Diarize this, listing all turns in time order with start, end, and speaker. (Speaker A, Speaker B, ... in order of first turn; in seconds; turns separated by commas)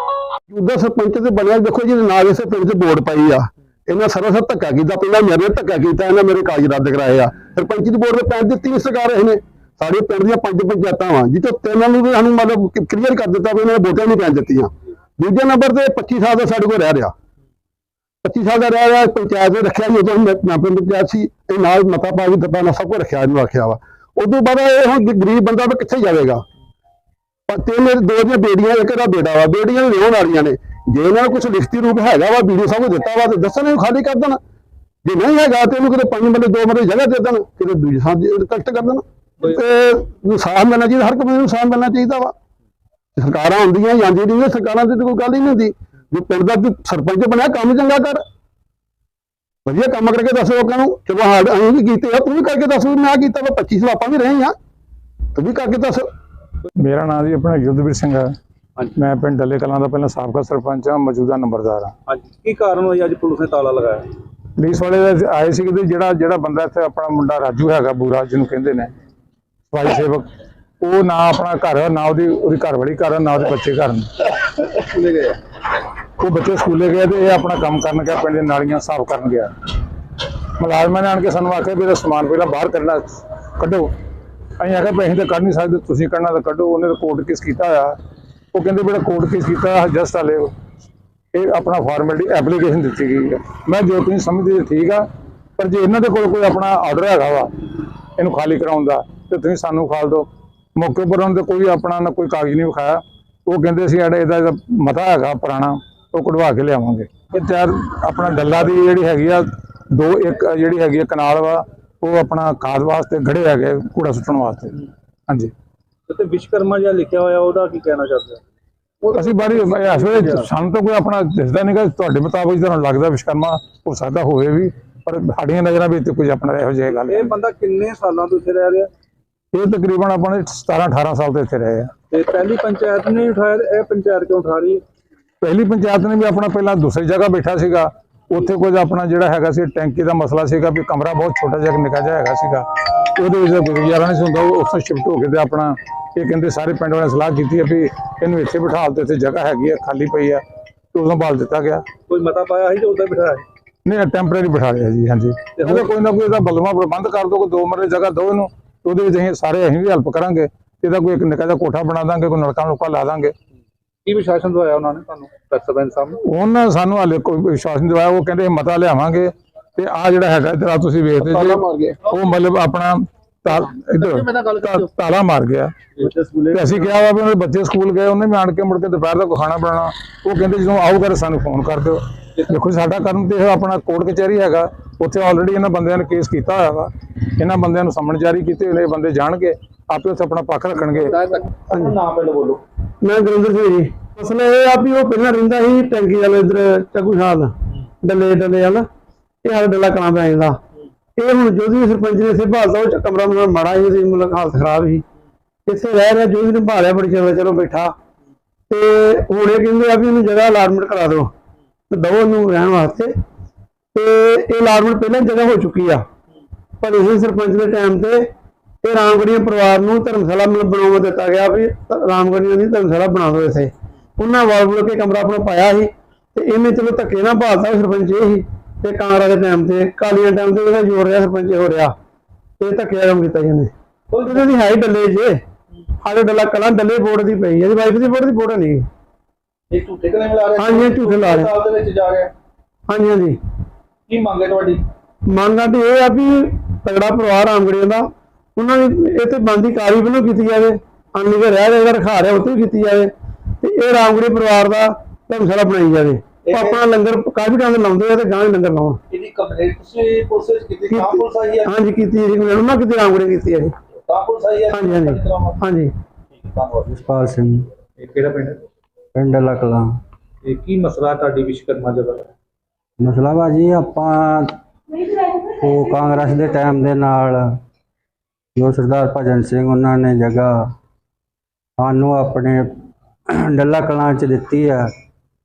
Speaker A: 0.5-17.1, Speaker A: 18.2-26.4, Speaker A: 27.5-34.4, Speaker A: 35.0-42.3, Speaker A: 43.2-48.2, Speaker A: 49.7-54.5, Speaker A: 55.4-56.1, Speaker B: 56.8-58.3, Speaker B: 59.0-62.0, Speaker C: 62.1-64.1, Speaker B: 64.6-68.9, Speaker B: 69.7-70.3, Speaker B: 70.8-74.3, Speaker C: 74.8-75.4, Speaker B: 76.2-79.5, Speaker B: 80.6-83.9, Speaker B: 84.6-88.0, Speaker B: 88.5-90.5, Speaker B: 91.3-95.1, Speaker B: 95.6-115.5, Speaker C: 116.1-118.4, Speaker B: 119.1-127.3, Speaker C: 119.2-120.5, Speaker C: 127.1-128.9, Speaker B: 129.5-131.9, Speaker C: 132.1-134.8, Speaker B: 135.4-150.4, Speaker B: 150.9-151.9, Speaker C: 152.1-153.4, Speaker B: 153.9-163.3, Speaker C: 155.6-155.9, Speaker C: 164.1-166.2, Speaker B: 166.3-175.8, Speaker C: 171.3-171.9, Speaker C: 174.0-174.8, Speaker C: 176.0-177.0, Speaker B: 176.5-191.1, Speaker C: 190.9-192.6, Speaker D: 191.7-192.0, Speaker D: 193.0-198.8, Speaker D: 199.4-200.6, Speaker D: 201.2-205.0, Speaker D: 205.7-207.9, Speaker D: 208.7-211.3, Speaker D: 211.9-213.1, Speaker D: 213.9-216.0, Speaker D: 216.8-218.2, Speaker D: 218.8-231.9, Speaker D: 232.6-233.7, Speaker C: 234.1-234.5, Speaker D: 234.2-235.4, Speaker D: 236.0-238.9, Speaker C: 239.7-242.3, Speaker D: 240.6-241.5, Speaker D: 242.9-243.4, Speaker C: 244.1-244.8, Speaker D: 245.3-259.0, Speaker C: 256.5-256.8, Speaker C: 259.1-261.7, Speaker D: 260.9-263.7, Speaker C: 264.1-265.6, Speaker D: 264.7-265.9, Speaker C: 266.4-266.9, Speaker E: 266.9-267.7, Speaker C: 268.0-268.6, Speaker E: 269.1-269.9, Speaker C: 270.4-272.3, Speaker E: 273.0-274.5, Speaker E: 275.4-277.4, Speaker E: 278.6-280.5, Speaker E: 281.8-282.6, Speaker E: 283.3-284.9